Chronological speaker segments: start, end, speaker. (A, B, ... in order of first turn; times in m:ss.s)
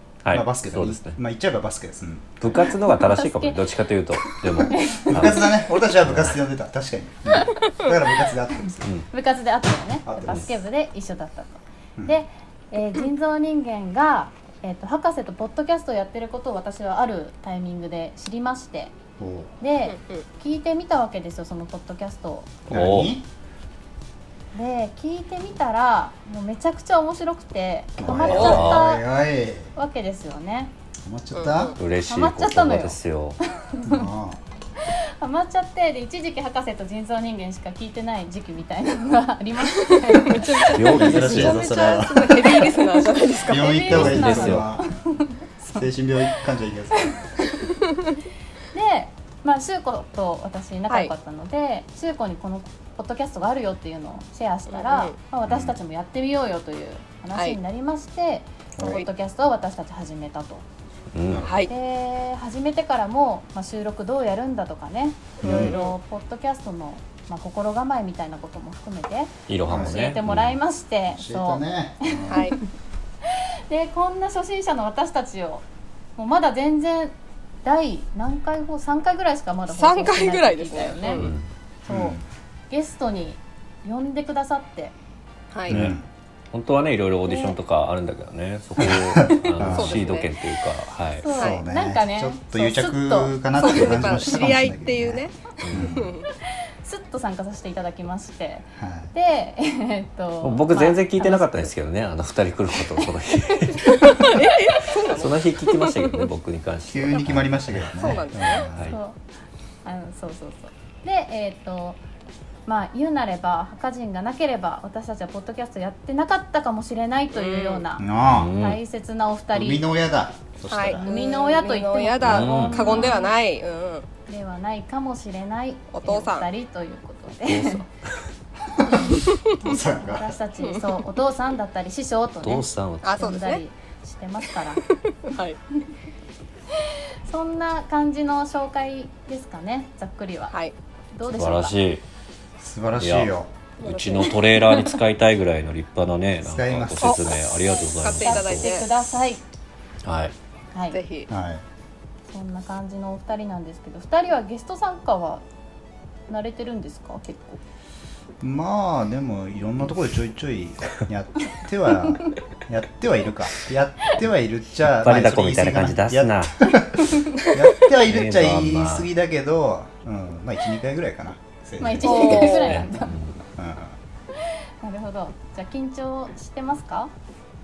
0:00.2-0:01.2 A
0:00.3-0:02.8 B
0:02.4-0:05.5 A
0:02.6-0:03.6 C
0:04.6-0:08.9 B
0:04.6-0:05.2 C
0:06.0-0:06.4 A
0:09.1-0:18.9 C
0:10.0-0:10.5 B
0:19.2-0:19.5 B
0:19.6-0:22.6 C
0:19.9-0:20.2 D
0:22.7-0:23.2 B
0:22.7-0:23.2 A
0:24.5-0:29.0 C
0:28.0-0:29.7 B
0:28.3-0:28.8 A
0:28.3-0:28.7 D
0:29.7-0:30.7 C
0:31.0-0:31.8 B
0:31.3-0:31.8 D
0:31.8-0:33.4 A
0:32.0-0:33.0 C
0:33.6-0:34.1 C
0:33.8-0:34.4 B
0:34.8-0:45.8 C
0:39.8-0:43.8 D
0:40.7-0:41.6 A
0:40.9-0:42.7 B
0:43.4-0:44.9 B
0:43.9-0:44.7 A
0:45.7-0:47.3 B
0:48.7-1:00.6 C
0:54.7-0:55.2 D
0:55.5-0:55.8 B
0:58.8-0:59.0 B
1:01.1-1:01.5 A
1:01.2-1:01.7 B
1:01.4-1:01.7 D
1:01.7-1:12.6 C
1:05.4-1:06.0 D
1:05.4-1:05.7 B
1:09.5-1:10.6 A
1:09.6-1:10.0 B
1:11.1-1:12.5 B
1:12.3-1:12.6 D
1:13.2-1:15.6 C
1:16.2-1:21.2 C
1:19.7-1:21.3 D
1:21.2-1:21.4 A
1:21.8-1:22.2 C
1:21.9-1:22.2 B
1:22.7-1:24.9 C
1:25.5-1:25.8 D
1:25.7-1:26.0 B
1:25.7-1:26.0 A
1:26.5-1:31.3 A
1:27.3-1:27.6 C
1:28.8-1:30.1 B
1:29.6-1:30.3 D
1:31.2-1:34.2 C
1:31.3-1:36.1 B
1:33.6-1:36.3 D
1:35.6-1:36.1 A
1:36.4-1:41.7 C
1:38.8-1:39.1 B
1:40.4-1:44.5 A
1:43.8-1:46.3 D
1:45.1-1:49.0 A
1:46.9-1:49.0 B
1:48.0-1:48.7 D
1:48.8-1:49.2 C
1:49.8-1:52.0 C
1:52.6-1:59.8 C
1:57.3-1:57.9 D
1:58.0-1:58.5 B
1:58.2-1:58.8 A
1:59.5-2:01.0 B
2:00.7-2:04.1 D
2:01.0-2:03.3 C
2:02.2-2:03.1 A
2:04.3-2:07.8 C
2:05.9-2:06.5 D
2:07.4-2:07.9 A
2:08.7-2:10.4 B
2:08.8-2:14.8 C
2:10.6-2:10.9 D
2:12.4-2:13.2 A
2:13.0-2:13.6 D
2:14.9-2:15.6 D
2:16.8-2:20.6 C
2:21.1-2:21.8 C
2:21.3-2:22.0 A
2:22.6-2:23.5 B
2:22.9-2:23.3 A
2:23.8-2:24.8 D
2:23.8-2:28.7 A
2:26.4-2:27.2 B
2:27.0-2:28.9 D
2:28.2-2:29.4 C
2:30.0-2:30.3 A
2:30.7-2:31.0 C
2:30.9-2:31.3 D
2:31.3-2:31.6 B
2:32.3-2:35.4 C
2:36.3-2:37.6 C
2:38.4-2:52.7 B
2:44.9-2:46.7 A
2:47.9-2:49.1 A
2:51.8-2:53.2 C
2:52.0-2:52.8 D
2:52.4-2:53.4 A
2:53.6-2:54.0 B
2:54.8-2:57.1 C